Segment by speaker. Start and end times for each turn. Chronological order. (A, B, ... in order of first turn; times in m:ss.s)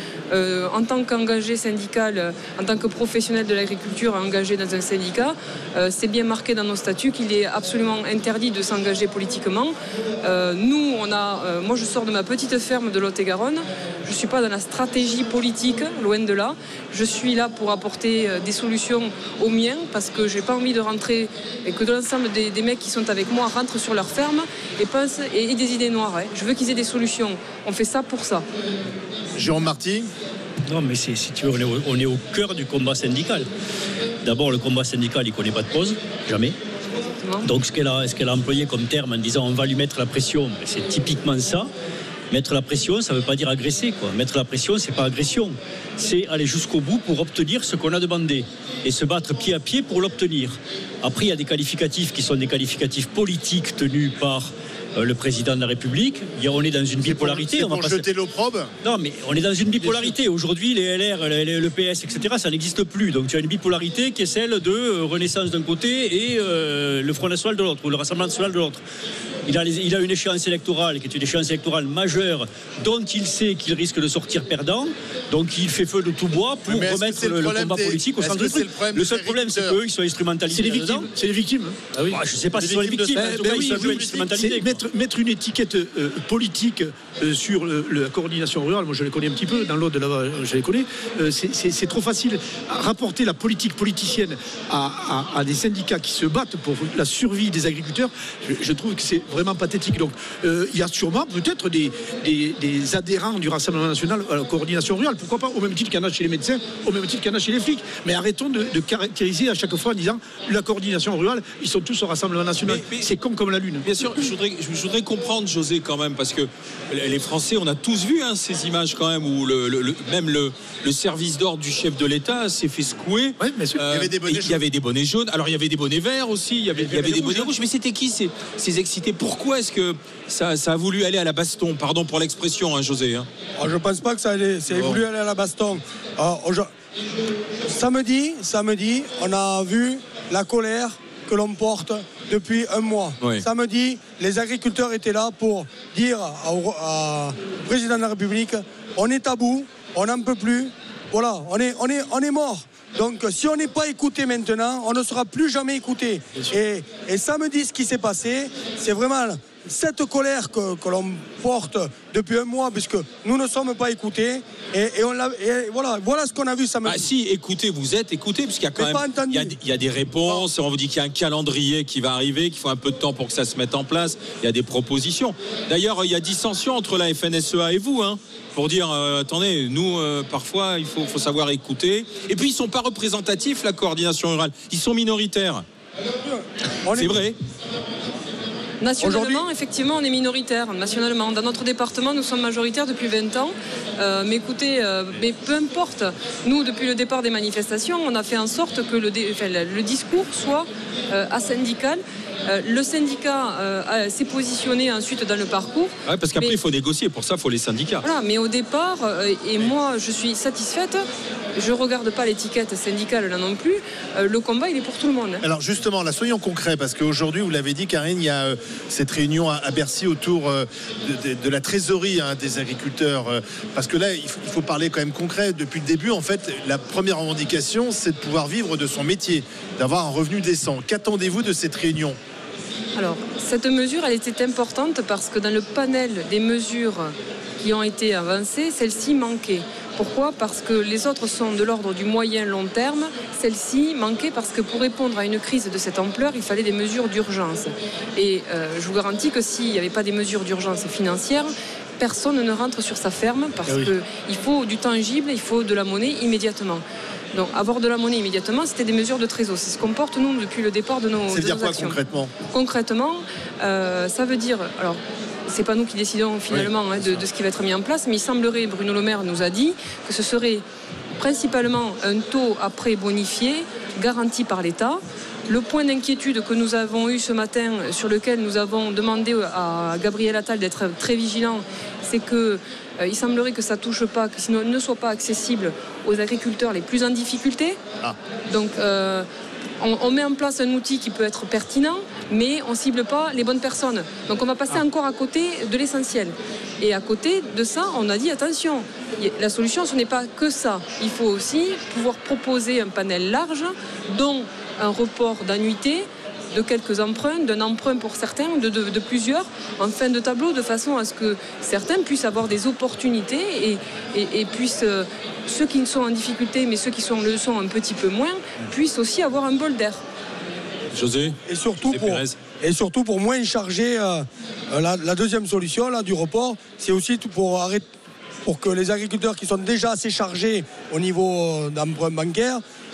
0:00.3-0:28.4 A
0:29.4-0:30.1 B
0:30.7-0:33.5 C
0:34.2-0:36.6 C
0:37.2-0:37.5 A
0:37.4-0:41.7 C
0:42.3-0:58.0 C
0:57.0-0:58.7 B
0:58.8-1:08.8 C
0:59.8-1:00.1 B
1:09.4-1:21.1 C
1:16.6-1:19.8 B
1:20.5-1:22.2 D
1:22.1-1:24.7 C
1:22.5-1:24.4 B
1:23.1-1:53.8 D
1:52.6-1:53.1 E
1:53.8-2:13.3 E
2:03.4-2:03.8 D
2:03.8-2:04.6 B
2:06.8-2:07.5 D
2:13.6-2:16.7 F
2:14.7-2:15.0 E
2:17.6-2:47.1 F
2:23.2-2:23.4 E
2:46.8-3:05.6 E
2:48.8-2:49.6 F
3:06.2-3:07.2 F
3:06.9-3:07.4 E
3:08.8-3:26.6 A
3:09.0-3:09.4 F
3:26.0-3:28.1 E
3:28.0-3:31.0 A
3:31.6-3:35.4 A
3:35.4-3:52.2 B
3:53.0-4:22.0 A
4:21.3-4:22.3 B
4:22.5-4:30.6 A
4:31.2-4:47.8 A
4:48.5-4:49.3 A
4:49.8-5:20.0 A
5:20.9-5:22.4 E
5:21.5-5:27.9 F
5:28.4-5:32.6 F